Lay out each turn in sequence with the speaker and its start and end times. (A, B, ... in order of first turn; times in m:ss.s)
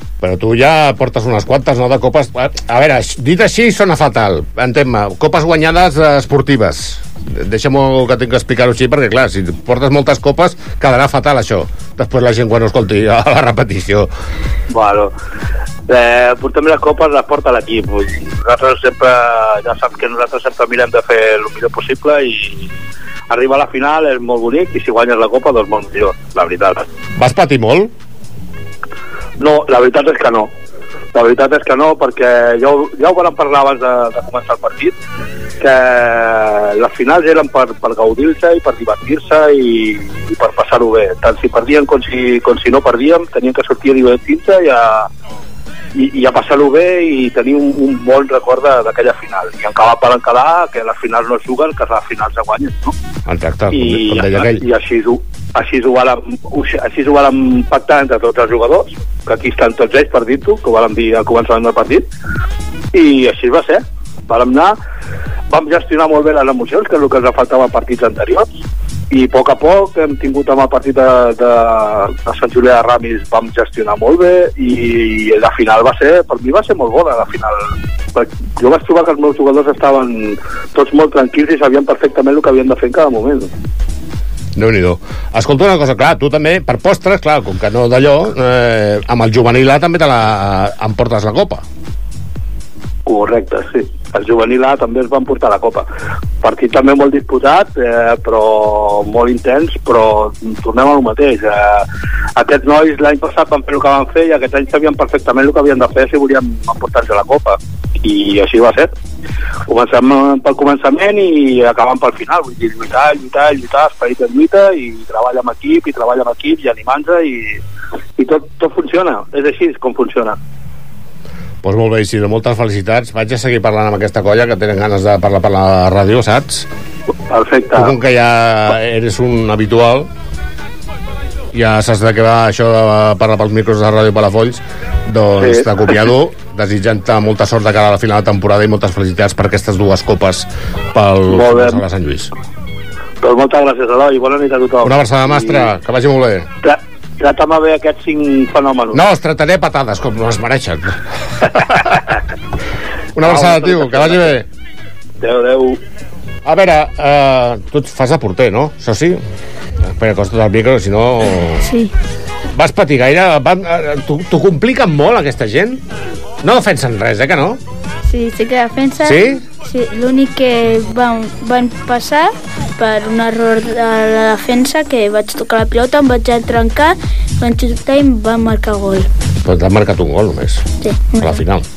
0:00.2-0:14.1 A
0:14.7-0:15.1 B
0:15.9-0:22.7 B
0:23.3-0:26.9 B
0:27.2-0:27.9 A
0:29.4-0:30.5 B
0:31.1-0:34.9 B
0:35.6-0:45.1 B
0:46.0-0:52.9 B
0:53.3-0:54.7 A
0:53.7-1:02.0 B
1:02.9-1:04.8 B
1:05.5-1:08.5 B
1:09.1-1:23.5 B
1:24.6-1:31.6 A
1:33.1-1:35.9 B
1:36.4-1:48.9 B
1:49.7-1:57.6 B
1:58.2-2:00.4 B
2:01.6-2:06.7 A
2:07.3-2:08.0 B
2:07.7-2:10.1 A
2:11.5-2:22.3 A
2:15.4-2:16.1 B
2:21.3-2:21.8 B
2:23.2-2:25.7 B
2:24.8-2:26.5 A
2:26.6-2:29.0 B
2:28.9-2:31.0 A
2:33.2-2:34.5 A
2:33.2-2:34.4 B
2:35.2-2:35.8 B
2:36.4-2:39.2 A
2:39.8-2:41.7 A
2:42.5-2:45.8 A
2:46.4-2:47.6 A
2:48.1-2:59.1 C
2:49.0-2:49.4 A
2:59.4-3:01.6 A
3:00.8-3:01.4 C